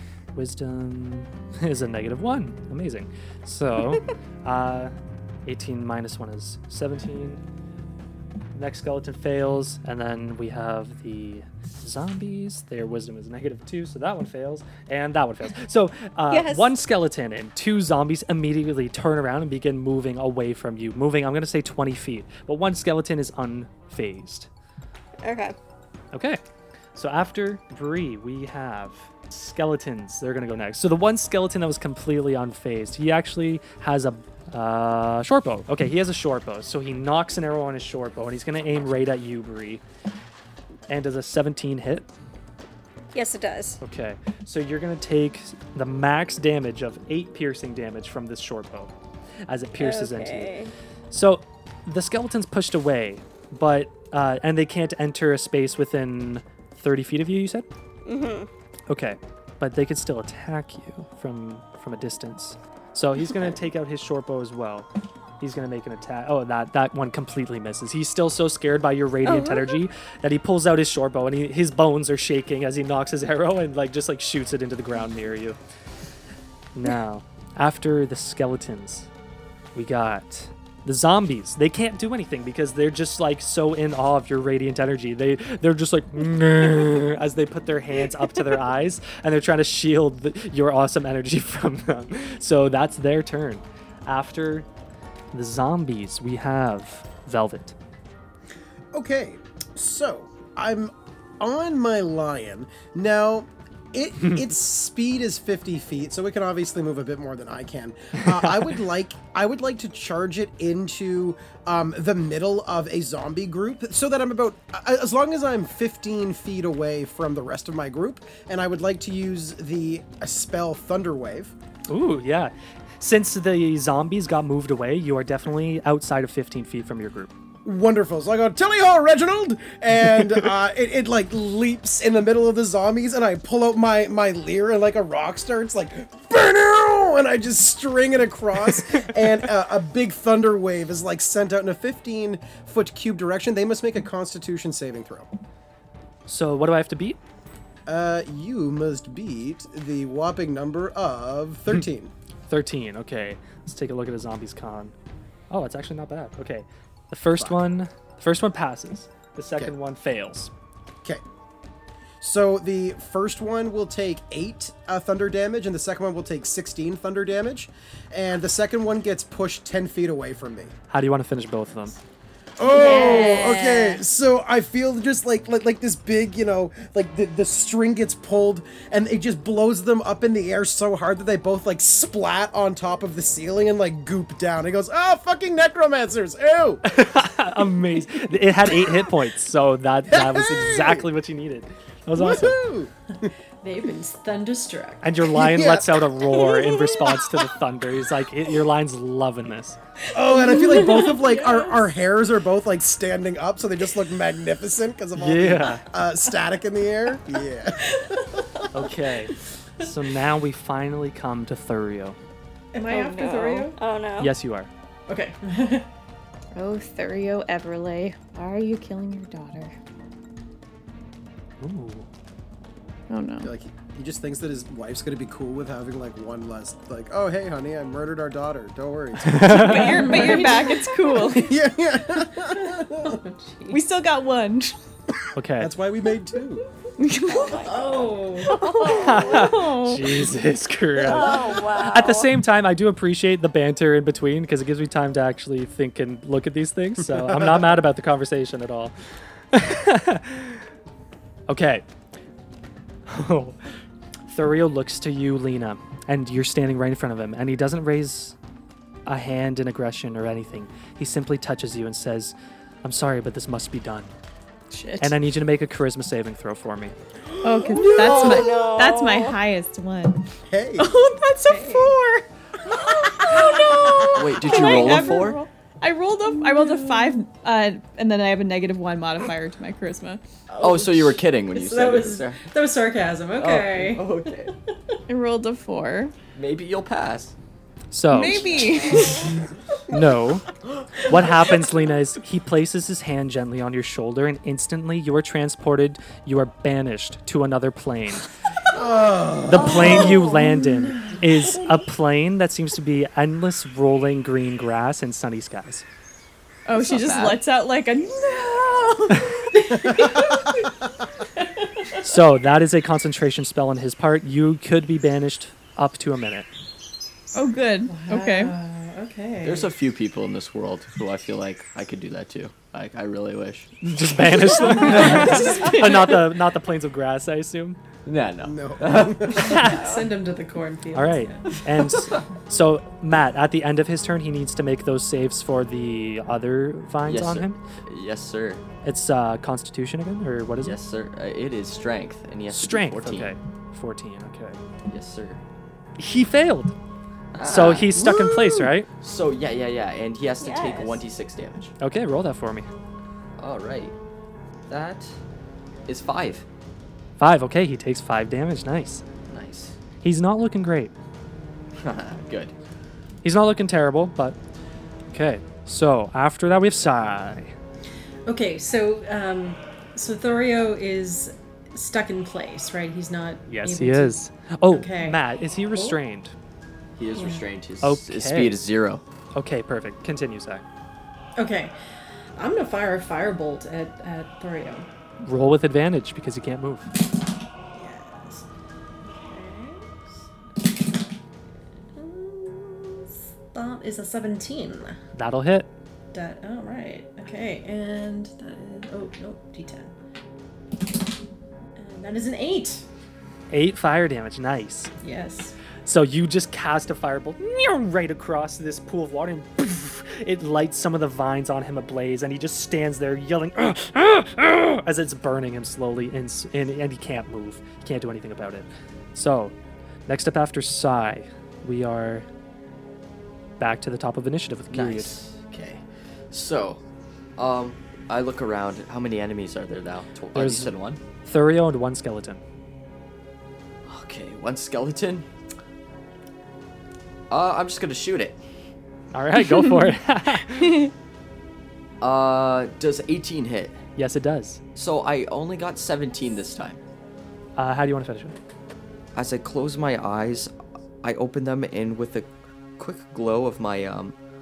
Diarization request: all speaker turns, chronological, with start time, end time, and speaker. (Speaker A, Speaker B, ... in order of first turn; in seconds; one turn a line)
Speaker A: 0.3-4.9
Speaker A: 5.5-7.4
Speaker A: 8.5-24.5
Speaker B: 16.3-16.7
Speaker B: 25.2-25.6
Speaker A: 26.1-26.4
Speaker A: 26.9-39.8
Speaker A: 40.9-42.1
Speaker B: 43.1-43.8
Speaker A: 43.8-48.9
Speaker A: 49.5-50.5
Speaker B: 49.8-50.7
Speaker A: 51.1-57.7
Speaker B: 58.0-58.5
Speaker A: 58.9-64.9
Speaker A: 65.4-75.6
Speaker B: 69.2-69.8
Speaker A: 76.8-79.1
Speaker A: 79.8-94.7
Speaker A: 95.3-97.8
Speaker C: 98.9-121.5
Speaker A: 104.2-104.5
Speaker A: 108.2-108.7
Speaker A: 121.9-127.3
Speaker C: 127.7-145.3
Speaker A: 130.2-130.4
Speaker A: 146.3-147.2
Speaker C: 147.9-152.1
Speaker A: 152.5-154.9
Speaker A: 155.5-160.5
Speaker C: 162.2-170.7
Speaker A: 170.9-172.0
Speaker C: 172.6-186.8
Speaker D: 172.7-174.0
Speaker E: 172.9-173.3
Speaker A: 186.8-192.6
Speaker C: 188.7-189.1
Speaker C: 190.1-191.1
Speaker C: 192.1-193.3
Speaker E: 193.6-195.2
Speaker A: 195.0-199.8
Speaker C: 195.3-196.1
Speaker C: 200.1-208.3
Speaker E: 200.2-201.9
Speaker A: 205.2-205.8
Speaker E: 207.9-208.7
Speaker A: 208.7-212.2
Speaker E: 212.7-213.8
Speaker B: 212.9-214.3
Speaker A: 214.2-214.7
Speaker E: 215.1-215.9
Speaker D: 216.6-219.8
Speaker A: 221.6-222.1
Speaker D: 223.1-223.5
Speaker C: 223.4-230.4
Speaker A: 229.3-230.0
Speaker D: 229.5-231.5
Speaker E: 229.6-231.4
Speaker C: 231.2-233.2
Speaker E: 232.2-233.8
Speaker D: 233.7-234.8
Speaker A: 235.4-235.7
Speaker C: 235.6-236.6
Speaker D: 237.0-237.7
Speaker B: 237.3-239.6
Speaker E: 237.5-238.9
Speaker D: 238.5-240.3
Speaker A: 238.9-250.6
Speaker B: 241.1-242.3
Speaker C: 247.1-247.7
Speaker A: 251.5-251.8
Speaker A: 253.1-253.6
Speaker A: 254.3-258.4
Speaker A: 259.1-264.1
Speaker D: 264.7-265.1
Speaker A: 265.0-266.9
Speaker D: 267.4-280.2
Speaker C: 267.5-268.7
Speaker B: 268.0-269.4
Speaker C: 270.5-271.0
Speaker E: 271.4-271.9
Speaker E: 273.1-274.0
Speaker F: 274.1-275.4
Speaker E: 276.3-277.2
Speaker E: 280.5-285.0
Speaker F: 280.6-282.4
Speaker F: 283.4-284.5
Speaker D: 285.1-286.1
Speaker F: 286.4-287.4
Speaker A: 287.9-288.5
Speaker D: 288.1-289.4
Speaker F: 288.5-289.2
Speaker A: 289.9-290.5
Speaker A: 291.0-298.3
Speaker E: 291.2-291.7
Speaker C: 298.7-300.2
Speaker A: 299.5-305.9
Speaker E: 299.6-301.6
Speaker D: 306.7-309.3
Speaker F: 306.8-307.4
Speaker E: 309.5-312.1
Speaker C: 309.8-310.4
Speaker A: 312.0-316.5
Speaker D: 317.3-318.5
Speaker E: 317.9-319.7
Speaker F: 319.4-323.9
Speaker A: 323.8-327.8
Speaker E: 324.5-326.3
Speaker F: 324.5-325.4
Speaker F: 328.1-329.7
Speaker C: 328.4-329.6
Speaker E: 329.3-331.9
Speaker A: 329.4-329.8
Speaker A: 330.9-337.6
Speaker F: 337.1-338.6
Speaker A: 338.8-340.8
Speaker F: 340.6-343.3
Speaker A: 342.5-344.6
Speaker F: 344.9-345.4
Speaker A: 346.0-346.8
Speaker F: 347.3-351.8
Speaker A: 347.4-348.9
Speaker B: 350.4-351.0
Speaker A: 351.8-352.7
Speaker F: 353.4-354.0
Speaker F: 354.7-355.2
Speaker F: 355.9-356.5
Speaker A: 357.2-359.0
Speaker F: 359.3-359.8
Speaker A: 360.0-360.9
Speaker F: 361.8-362.5
Speaker A: 363.2-364.4
Speaker A: 365.1-367.5
Speaker E: 368.3-375.2
Speaker A: 373.5-376.4
Speaker E: 375.7-376.0
Speaker F: 377.0-379.0
Speaker E: 377.1-377.5
Speaker A: 377.8-378.6
Speaker A: 379.4-380.6
Speaker E: 381.4-381.7
Speaker E: 382.4-384.9
Speaker A: 385.2-386.9
Speaker E: 387.7-388.5
Speaker E: 389.1-390.3
Speaker E: 391.9-395.0
Speaker A: 395.2-395.7
Speaker E: 396.1-399.9
Speaker E: 401.8-402.9
Speaker A: 403.5-404.9
Speaker E: 405.0-405.6
Speaker A: 405.9-419.6
Speaker A: 420.1-422.3
Speaker A: 423.6-425.1
Speaker F: 424.7-426.8
Speaker F: 427.4-431.0
Speaker A: 430.4-430.7
Speaker A: 431.2-432.4
Speaker F: 433.9-435.3
Speaker F: 437.3-438.4
Speaker A: 439.1-440.8
Speaker D: 439.5-439.9
Speaker D: 440.6-440.9
Speaker F: 442.0-443.8
Speaker A: 444.0-444.6
Speaker F: 444.8-446.8
Speaker A: 447.6-448.4
Speaker F: 449.1-450.5
Speaker F: 451.0-454.1